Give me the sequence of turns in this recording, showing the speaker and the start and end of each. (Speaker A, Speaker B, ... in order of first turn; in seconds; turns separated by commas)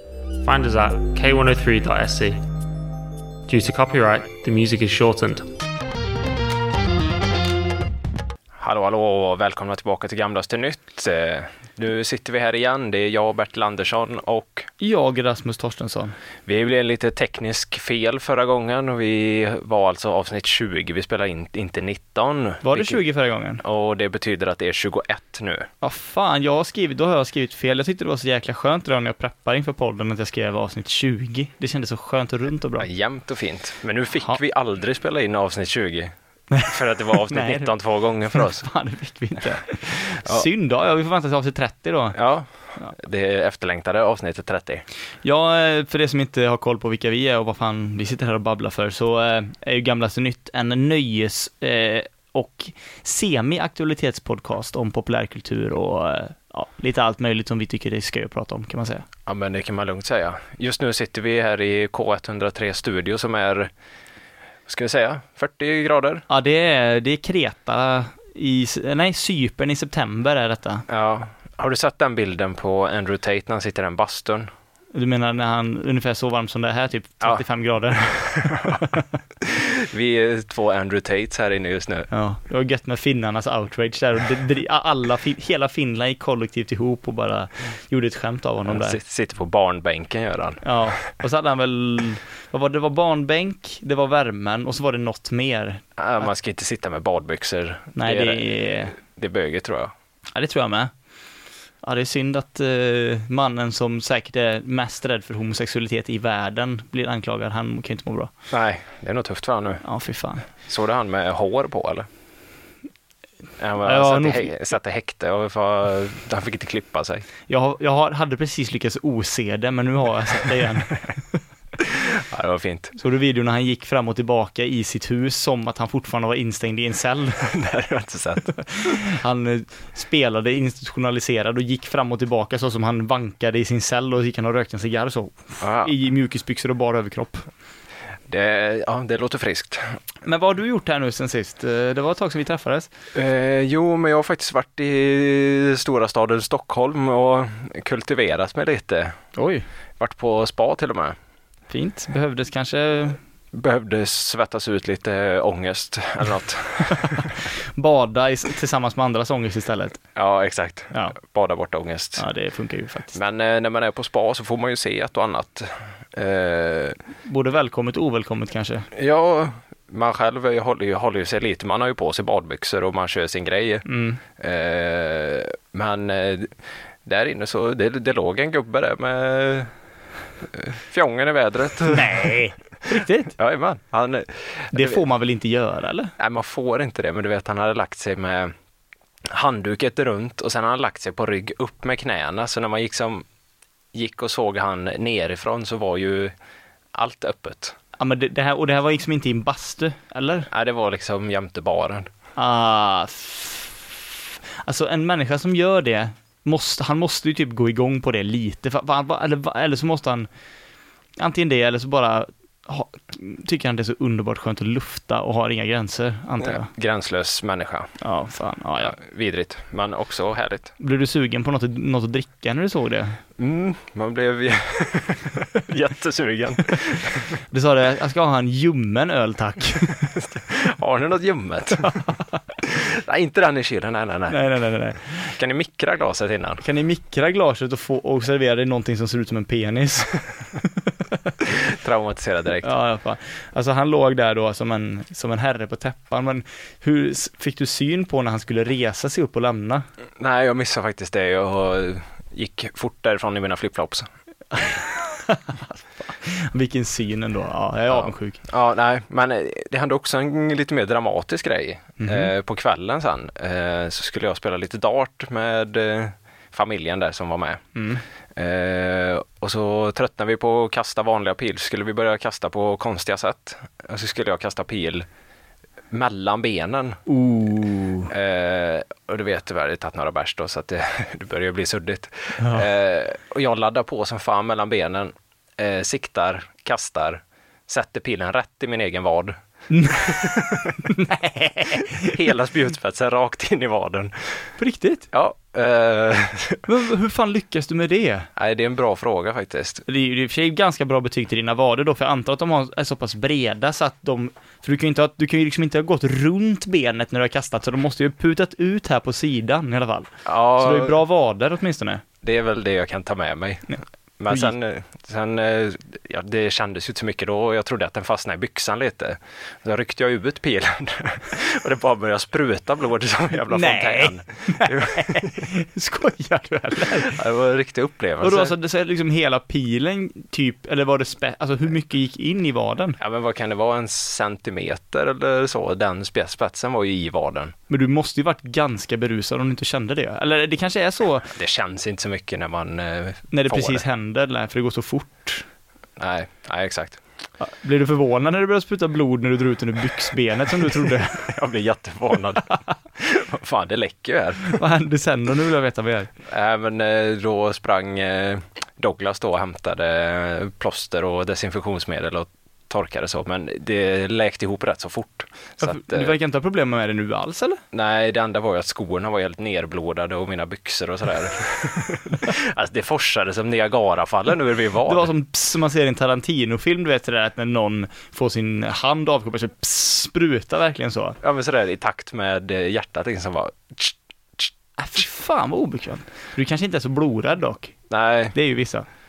Speaker A: 0.4-2.4, Speaker A: 3.5-5.5, Speaker B: 8.6-14.7, Speaker C: 14.8-16.1, Speaker B: 16.4-23.0, Speaker C: 22.6-23.6, Speaker B: 23.6-25.7, Speaker C: 25.8-32.9, Speaker B: 32.8-36.1, Speaker B: 36.6-38.7, Speaker C: 37.2-37.7, Speaker C: 38.3-42.2, Speaker B: 40.1-40.5, Speaker B: 42.1-44.8, Speaker C: 45.2-59.1, Speaker B: 59.2-63.7, Speaker B: 64.7-66.2, Speaker C: 66.3-70.8, Speaker B: 70.9-74.5, Speaker C: 74.9-79.0, Speaker B: 78.0-78.9, Speaker B: 79.4-82.1, Speaker C: 82.1-89.0, Speaker B: 88.7-91.0, Speaker C: 90.6-95.8, Speaker B: 96.0-99.9, Speaker C: 97.9-99.0, Speaker C: 100.3-100.9, Speaker C: 101.8-108.3, Speaker B: 108.5-109.8, Speaker C: 109.8-110.4, Speaker B: 110.6-112.1, Speaker B: 113.6-117.2, Speaker C: 113.8-114.5, Speaker C: 117.5-121.0, Speaker B: 121.8-122.9, Speaker C: 123.0-127.4, Speaker B: 127.4-128.5, Speaker C: 128.5-137.5, Speaker B: 135.6-135.9, Speaker B: 138.3-139.9, Speaker C: 140.2-142.9, Speaker B: 143.1-149.2, Speaker C: 149.3-149.7, Speaker B: 150.0-151.2, Speaker C: 151.7-153.2, Speaker B: 153.5-157.3, Speaker C: 157.1-160.0, Speaker B: 160.1-162.2, Speaker C: 162.2-163.1, Speaker B: 163.1-167.0, Speaker C: 167.2-168.9, Speaker B: 168.9-179.7, Speaker C: 173.8-174.2, Speaker B: 180.4-182.3, Speaker C: 181.9-183.3, Speaker B: 183.3-185.0, Speaker C: 184.7-186.1, Speaker B: 186.2-188.5, Speaker B: 189.2-193.2, Speaker B: 193.9-196.3, Speaker B: 196.9-197.8, Speaker C: 198.0-200.5, Speaker B: 200.5-202.1, Speaker C: 202.3-204.0, Speaker C: 204.6-210.3, Speaker C: 211.2-216.7, Speaker B: 216.4-217.9, Speaker C: 218.0-219.0, Speaker B: 218.8-220.7, Speaker C: 220.8-223.2, Speaker B: 223.4-227.3, Speaker C: 227.5-230.1, Speaker B: 230.2-232.0, Speaker C: 231.8-232.3, Speaker B: 232.6-234.4, Speaker C: 234.3-235.3, Speaker B: 235.3-236.6, Speaker C: 236.6-240.7, Speaker B: 241.4-242.7, Speaker C: 242.6-249.8, Speaker B: 250.2-254.1, Speaker C: 254.5-258.4, Speaker B: 257.9-267.6, Speaker C: 262.0-262.3, Speaker C: 267.7-268.0, Speaker B: 268.4-275.1, Speaker B: 275.9-277.0, Speaker C: 277.1-278.1, Speaker B: 278.1-289.4, Speaker C: 282.4-282.7, Speaker C: 289.7-292.2, Speaker B: 290.0-290.6, Speaker B: 291.7-294.5, Speaker C: 294.6-295.1, Speaker B: 295.1-296.6, Speaker C: 296.6-298.3, Speaker B: 298.4-299.8, Speaker C: 299.9-312.0, Speaker B: 310.2-311.0, Speaker B: 312.2-325.4, Speaker C: 323.5-327.1, Speaker B: 326.9-328.5, Speaker C: 328.2-333.0, Speaker B: 333.0-337.5, Speaker C: 337.7-341.3, Speaker B: 341.3-343.8, Speaker C: 343.3-345.4, Speaker B: 346.0-347.0, Speaker C: 347.4-351.3, Speaker B: 351.1-354.6, Speaker C: 354.5-356.1, Speaker B: 356.3-366.1, Speaker C: 365.6-367.6, Speaker B: 367.7-375.1, Speaker C: 374.8-381.2, Speaker B: 381.2-384.5, Speaker C: 384.8-387.8, Speaker B: 387.9-388.3, Speaker C: 388.3-388.9